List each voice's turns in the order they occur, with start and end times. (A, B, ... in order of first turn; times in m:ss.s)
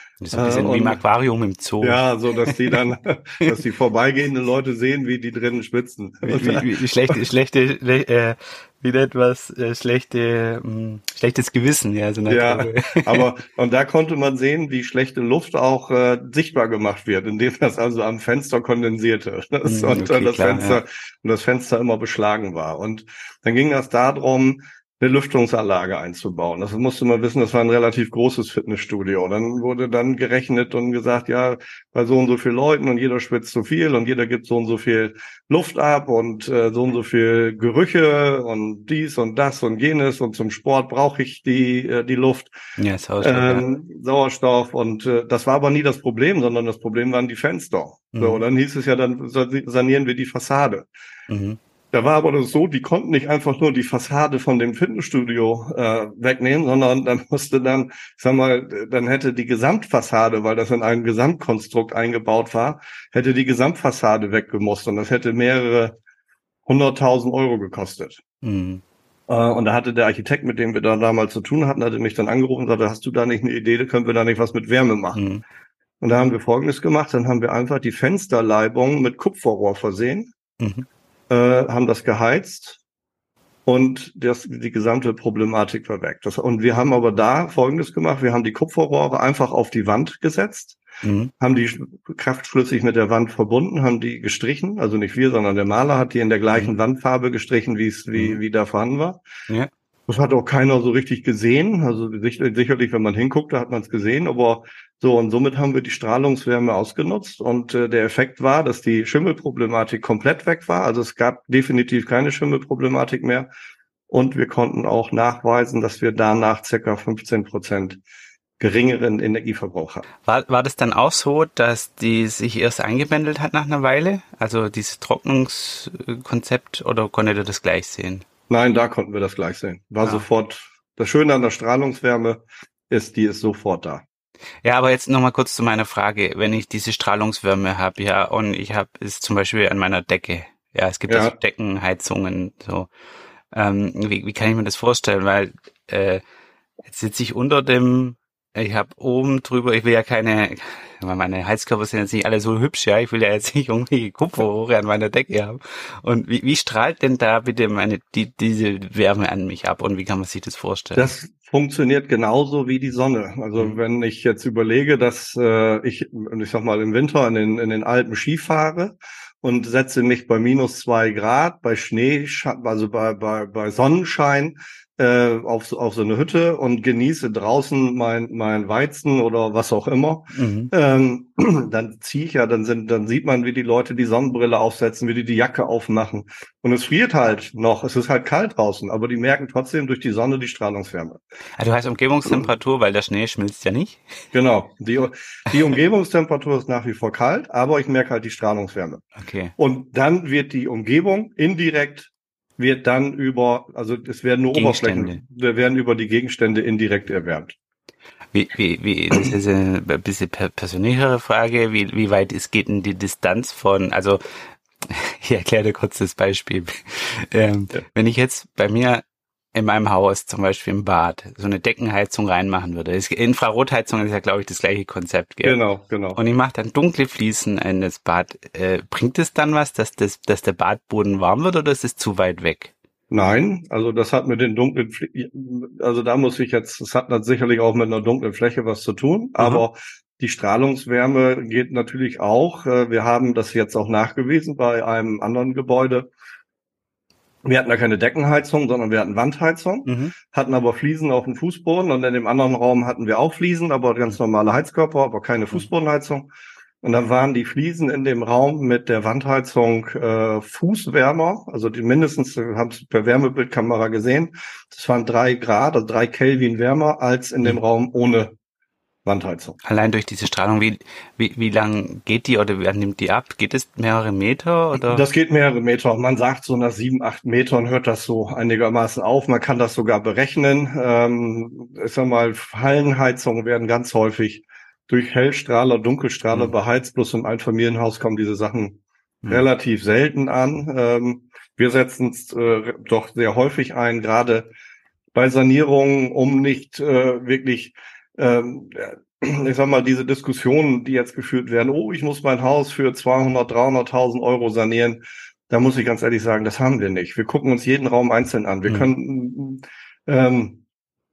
0:00.2-0:02.0 A
0:00.3-0:01.0 B
0:01.8-0:07.2 B
0:06.2-0:13.2 A
0:12.3-0:42.5 B
0:19.6-0:20.8 A
0:42.8-0:43.6 A
0:43.2-0:50.9 B
0:48.1-0:48.4 A
0:51.3-0:51.6 A
0:51.9-1:06.0 B
1:06.6-1:08.2 B
1:08.4-1:08.8 A
1:09.3-1:15.2 B
1:15.1-1:15.4 A
1:16.0-1:20.3 B
1:20.6-1:20.8 A
1:21.3-1:22.8 B
1:23.6-1:30.8 B
1:31.0-1:31.3 A
1:31.4-1:39.2 B
1:40.1-1:53.5 B
1:54.1-1:58.0 B
1:58.6-2:00.0 B
2:00.2-2:08.2 A
2:08.5-2:14.0 B
2:14.6-2:22.9 A
2:21.1-2:21.3 B
2:23.5-2:26.2 A
2:26.8-2:41.0 A
2:40.9-3:11.2 B
3:00.3-3:00.7 A
3:11.6-3:14.0 A
3:14.3-3:19.0 B
3:19.2-3:19.5 A
3:19.6-3:27.6 B
3:24.5-3:25.2 A
3:28.3-3:45.6 A
3:45.4-3:46.2 B
3:46.1-3:52.7 A
3:53.1-4:06.1 B
4:07.4-4:16.3 B
4:09.8-4:10.1 A
4:16.8-4:28.3 B
4:29.0-4:29.6 B
4:29.6-4:35.0 A
4:34.9-4:54.5 B
4:55.1-5:10.6 B